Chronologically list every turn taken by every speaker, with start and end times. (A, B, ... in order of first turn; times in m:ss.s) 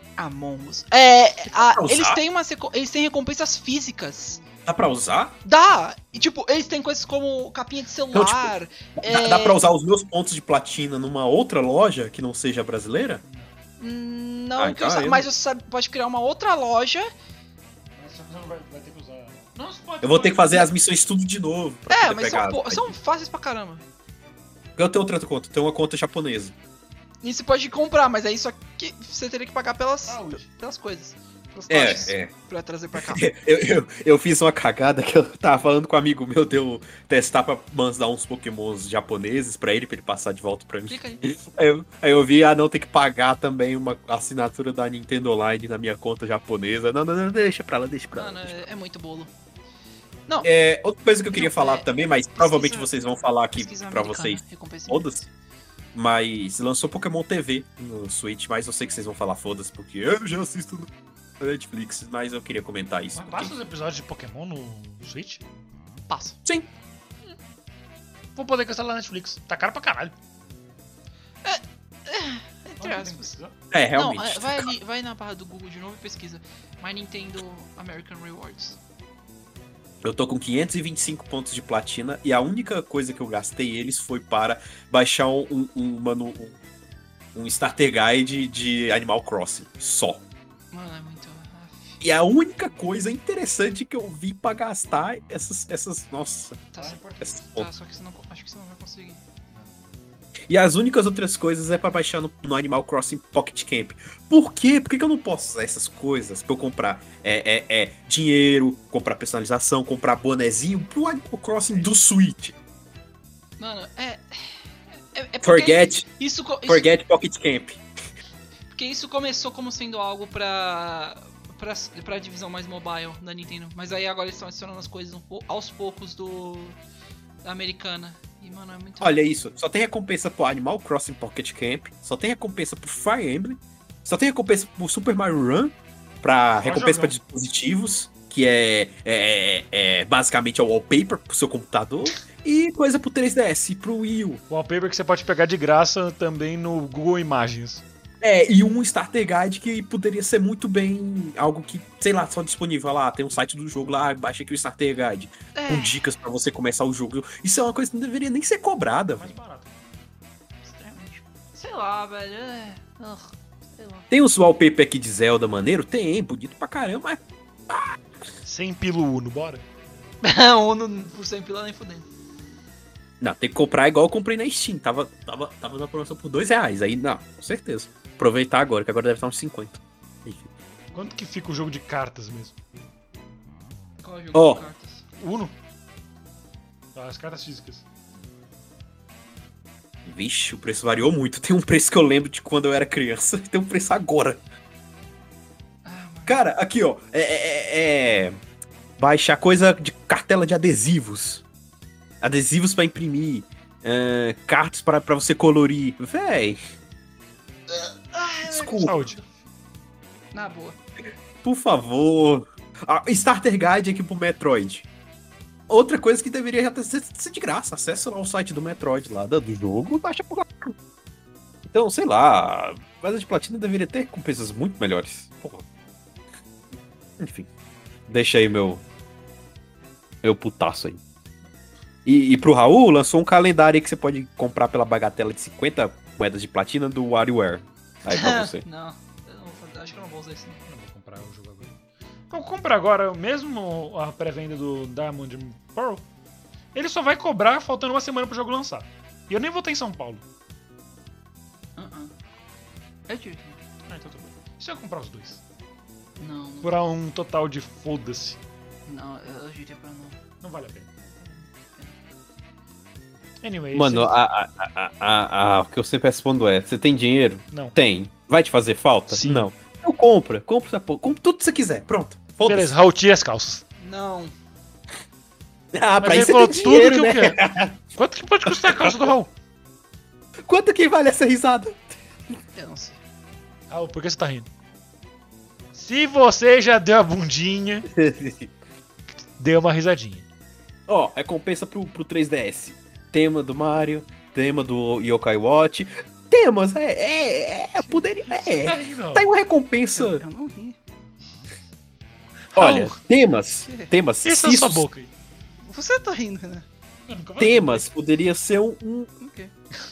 0:00.2-0:04.4 A
0:01.5-0:02.2 B
0:04.6-0:05.4 B
0:05.4-0:09.6 A
0:08.1-0:13.2 B
0:13.2-0:13.5 C
0:13.8-0:17.1 A
0:14.6-0:15.3 B
0:18.0-0:20.7 C
0:20.0-0:22.9 B
0:21.9-0:23.8 A
0:24.8-0:26.6 B
0:27.2-0:33.3 A
0:30.1-0:30.5 C
0:31.7-0:32.3 B
0:32.9-0:48.7 B
0:40.9-0:41.2 A
0:48.1-0:49.3 A
0:50.4-0:55.2 B
0:51.3-0:55.3 A
0:55.9-1:03.6 B
1:03.1-1:05.4 C
1:06.1-1:06.4 A
1:08.4-1:10.1 C
1:11.4-1:13.3 A
1:12.8-1:13.5 C
1:13.7-1:14.7 B
1:14.0-1:18.8 A
1:20.0-1:26.6 B
1:27.3-1:30.2 B
1:30.7-1:32.0 A
1:32.0-1:36.6 B
1:36.7-1:39.2 A
1:36.8-1:37.4 C
1:37.2-1:37.7 B
1:39.5-1:39.8 C
1:40.5-1:52.6 B
1:53.6-1:54.6 A
1:55.1-1:56.9 A
1:55.4-1:56.1 B
1:56.6-1:57.8 B
1:58.7-2:06.8 A
2:07.4-2:09.2 A
2:09.0-2:24.4 B
2:16.6-2:17.1 C
2:24.5-2:27.8 C
2:28.2-2:39.3 B
2:35.6-2:36.0 A
2:39.1-2:39.7 C
2:40.6-2:44.1 A
2:44.1-2:48.0 B
2:48.4-2:49.6 C
2:50.2-2:52.1 A
2:53.2-3:00.4 B
3:00.9-3:02.6 C
3:04.0-3:05.0 A
3:04.3-3:04.6 B
3:05.2-3:05.5 C
3:07.0-3:07.8 C
3:10.0-3:14.4 B
3:15.8-3:16.4 A
3:16.3-3:18.4 B
3:19.0-3:21.4 B
3:22.2-3:26.6 B
3:28.1-3:29.1 A
3:28.4-3:29.1 B
3:28.6-3:29.2 C
3:30.3-3:30.8 A
3:31.4-3:34.9 B
3:35.7-3:40.7 B
3:41.7-3:45.7 B
3:47.2-3:47.5 B
3:48.1-3:48.8 B
3:50.2-3:51.0 B
3:52.0-3:58.6 B
3:58.1-4:00.6 A
4:00.7-4:01.7 C
4:02.3-4:06.0 C
4:06.7-4:10.2 C
4:11.8-4:12.1 A
4:13.1-4:13.6 A
4:13.9-4:15.4 C
4:16.2-4:16.7 A
4:16.6-4:18.4 C
4:18.9-4:20.2 A
4:20.4-4:20.9 C
4:21.0-4:22.0 A
4:23.4-4:24.1 C
4:23.7-4:32.8 B
4:29.1-4:29.5 C
4:32.4-4:33.6 C
4:33.8-4:34.3 A
4:35.7-4:37.8 B
4:36.0-4:37.4 C
4:38.0-4:39.3 C
4:38.4-4:39.1 B
4:40.4-4:42.0 B
4:42.6-4:43.0 A
4:43.7-4:44.5 C
4:45.7-4:47.9 C
4:47.9-4:48.5 B
4:49.4-4:50.3 C
4:50.9-5:00.2 B
4:58.6-4:59.3 C
5:00.0-5:00.8 A
5:02.5-5:03.0 C
5:02.6-5:04.9 B
5:03.7-5:03.9 A
5:04.2-5:05.1 C
5:05.6-5:06.7 A
5:07.1-5:07.9 C
5:07.4-5:09.1 B
5:09.2-5:09.5 A